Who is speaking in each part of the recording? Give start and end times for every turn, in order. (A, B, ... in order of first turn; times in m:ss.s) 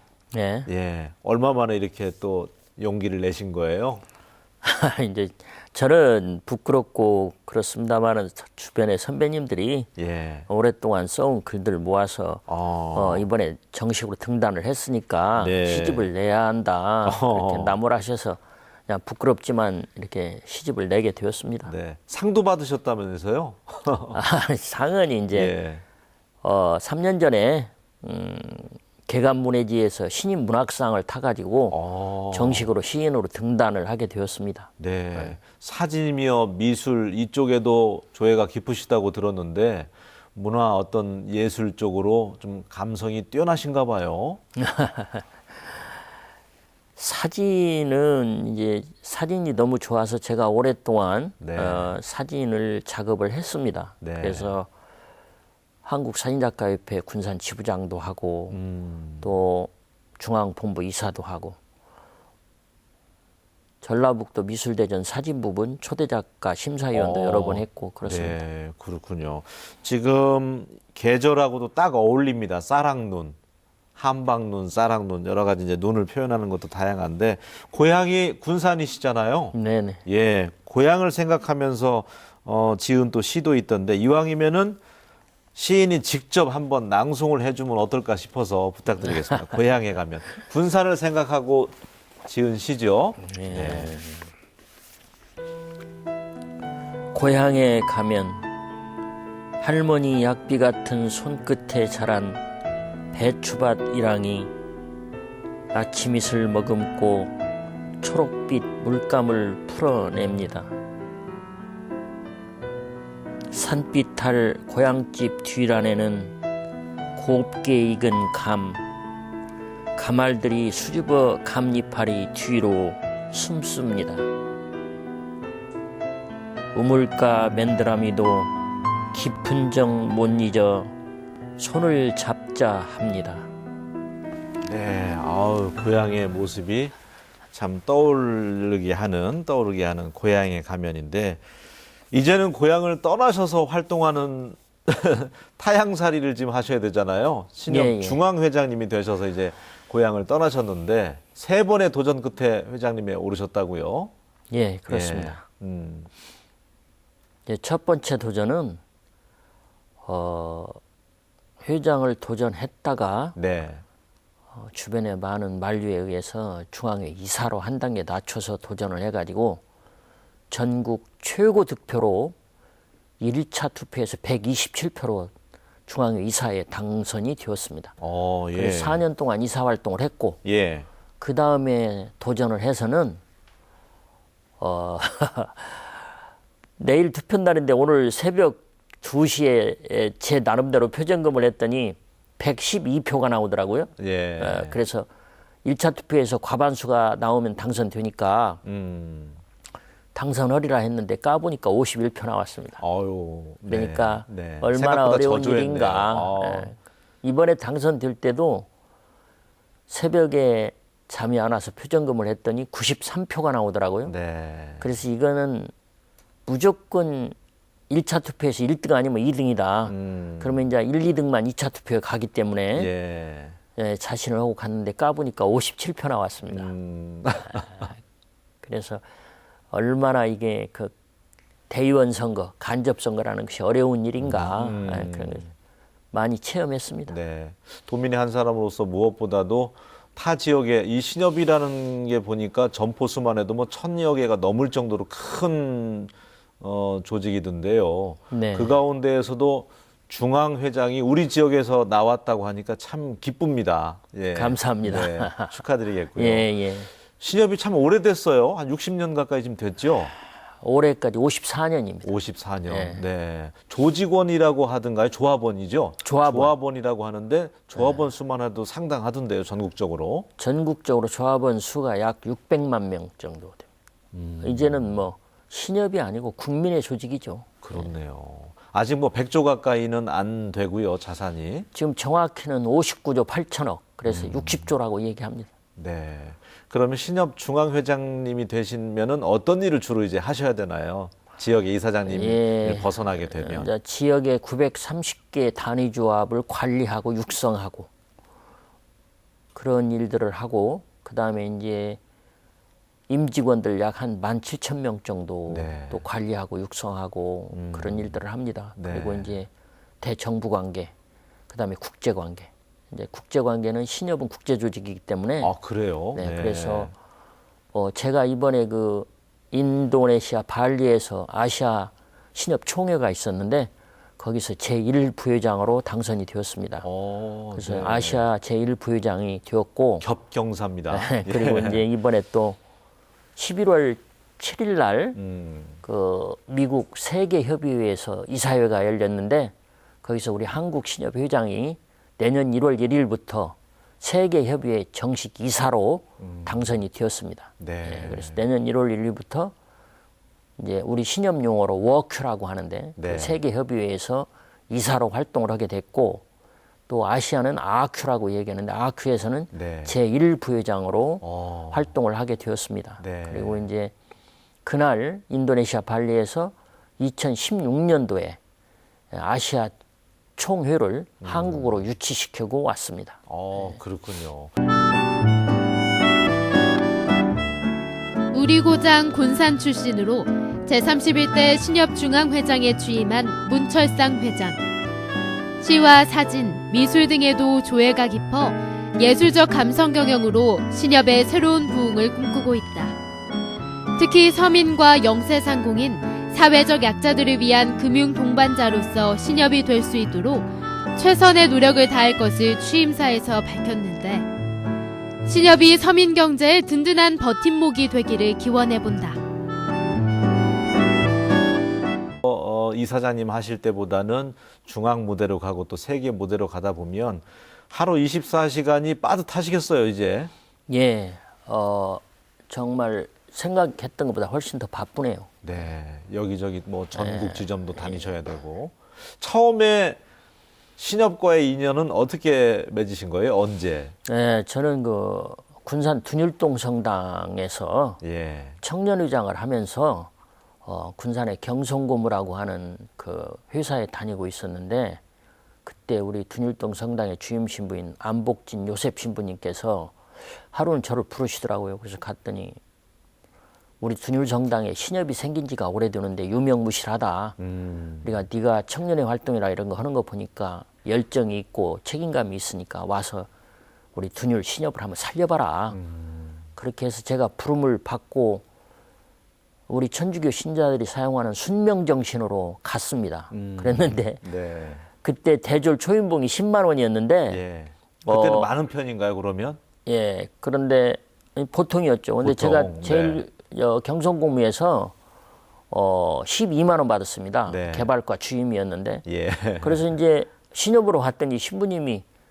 0:00.3-0:00.7 A
0:00.7-0:04.0 B
0:04.6-0:09.9 A
0:10.0-0:10.5 B
0:10.5-0:21.7 A
0:12.5-0:13.3 B
0:15.4-0:16.1 B
0:17.0-0:17.8 B
0:21.6-0:24.2 B
0:24.1-0:25.6 A
0:25.3-0:25.8 B
0:26.4-0:31.8 A
0:31.7-0:32.7 B
0:32.3-0:35.4 A
0:34.8-0:44.4 B
0:44.6-0:45.3 A
0:47.0-0:54.7 A
0:51.4-0:51.9 B
0:54.0-0:54.5 B
0:55.8-0:58.6 A
0:58.5-0:59.4 B
0:59.2-1:01.6 A
1:03.8-1:08.4 A
1:06.9-1:13.4 B
1:14.0-1:24.8 B
1:19.5-1:20.0 A
1:25.6-1:34.0 B
1:33.2-1:34.3 A
1:37.1-1:38.5 A
1:39.6-1:42.4 A
1:43.1-1:44.5 A
1:45.7-1:47.3 A
1:48.0-1:50.7 A
1:53.5-1:56.3 A
1:57.2-1:58.8 A
2:00.0-2:04.3 A
2:06.7-2:08.5 A
2:09.1-2:10.9 A
2:11.6-2:13.5 A
2:14.6-2:16.9 B
2:17.5-2:21.4 B
2:22.1-2:34.1 B
2:27.7-2:28.2 A
2:34.5-2:35.4 A
2:34.9-2:36.1 B
2:37.5-2:38.8 A
2:40.0-2:40.8 A
2:41.6-2:43.4 A
2:43.4-2:43.8 B
2:44.5-2:49.6 A
2:50.5-2:52.4 A
2:53.2-2:55.3 A
2:55.9-2:57.9 A
2:58.0-2:59.0 B
2:58.5-3:00.4 A
3:00.4-3:00.9 B
3:01.2-3:03.2 A
3:04.6-3:06.0 A
3:06.8-3:15.1 A
3:14.0-3:14.8 B
3:15.6-3:18.6 A
3:18.6-3:19.4 B
3:20.1-3:22.8 A
3:22.8-3:26.7 B
3:23.7-3:28.7 A
3:29.9-3:34.1 A
3:34.1-3:34.9 B
3:34.8-3:35.7 A
3:36.5-3:37.4 A
3:37.9-3:42.9 A
3:39.9-3:40.7 B
3:42.7-3:43.6 B
3:43.8-3:46.7 A
3:46.5-3:47.8 B
3:48.6-3:49.0 A
3:49.7-3:50.9 A
3:51.7-3:55.5 A
3:54.2-3:55.5 B
3:56.1-3:57.2 A
3:57.1-4:16.5 B
4:08.3-4:08.8 A
4:14.3-4:15.6 A
4:16.2-4:16.9 A
4:17.2-4:20.1 B
4:20.6-4:23.0 A
4:22.0-4:30.3 B
4:26.0-4:26.5 A
4:27.8-4:28.0 A
4:30.4-4:33.7 A
4:34.1-4:35.0 B
4:34.4-4:37.9 A
4:37.6-4:41.7 B
4:41.7-4:45.5 A
4:44.1-4:44.7 B
4:45.8-4:53.7 B
4:52.1-4:57.9 A
4:59.5-5:02.0 A
5:03.1-5:09.5 A
5:05.5-5:06.0 B
5:07.5-5:08.2 B
5:08.8-5:09.4 B
5:10.0-5:10.9 A
5:11.5-5:15.5 A
5:15.4-5:16.9 B
5:16.2-5:16.9 A
5:17.7-5:26.8 A
5:26.8-5:28.3 B
5:27.6-5:30.1 A
5:30.0-5:31.8 B
5:30.9-5:32.6 A
5:33.4-5:35.2 A
5:35.2-5:35.8 B
5:35.8-5:49.5 A
5:46.2-5:46.8 B
5:47.6-5:48.4 B
5:50.6-5:56.2 A
5:53.0-5:53.4 B
5:56.9-6:03.9 A
5:59.5-6:00.0 B
6:01.2-6:01.9 B
6:03.0-6:03.7 B
6:04.6-6:08.4 A
6:09.1-6:09.7 A
6:10.4-6:13.8 A
6:11.2-6:11.8 B
6:13.3-6:14.5 B
6:18.3-6:24.6 C
6:25.6-6:33.0 C
6:34.0-6:44.3 C
6:45.2-6:49.2 C
6:52.2-7:00.3 B
7:00.7-7:05.3 A
7:05.4-7:10.0 B
7:06.9-7:08.1 A
7:10.8-7:13.9 B
7:14.0-7:18.0 A
7:18.0-7:18.6 B
7:18.6-7:20.1 A
7:20.6-7:25.0 A
7:25.7-7:30.0 A
7:30.5-7:32.6 A
7:33.8-7:37.4 A
7:37.4-7:38.2 B
7:38.0-7:43.3 A
7:44.0-7:45.8 A
7:45.7-7:46.4 B
7:46.6-7:48.4 A
7:49.7-7:54.2 A
7:53.3-7:54.9 B
7:55.0-7:57.4 A
7:57.3-7:59.6 B
7:58.1-7:58.5 A
7:59.9-8:04.9 A
8:02.2-8:03.3 B
8:05.7-8:09.0 A
8:07.5-8:07.9 B
8:09.1-8:09.9 B
8:09.6-8:12.0 A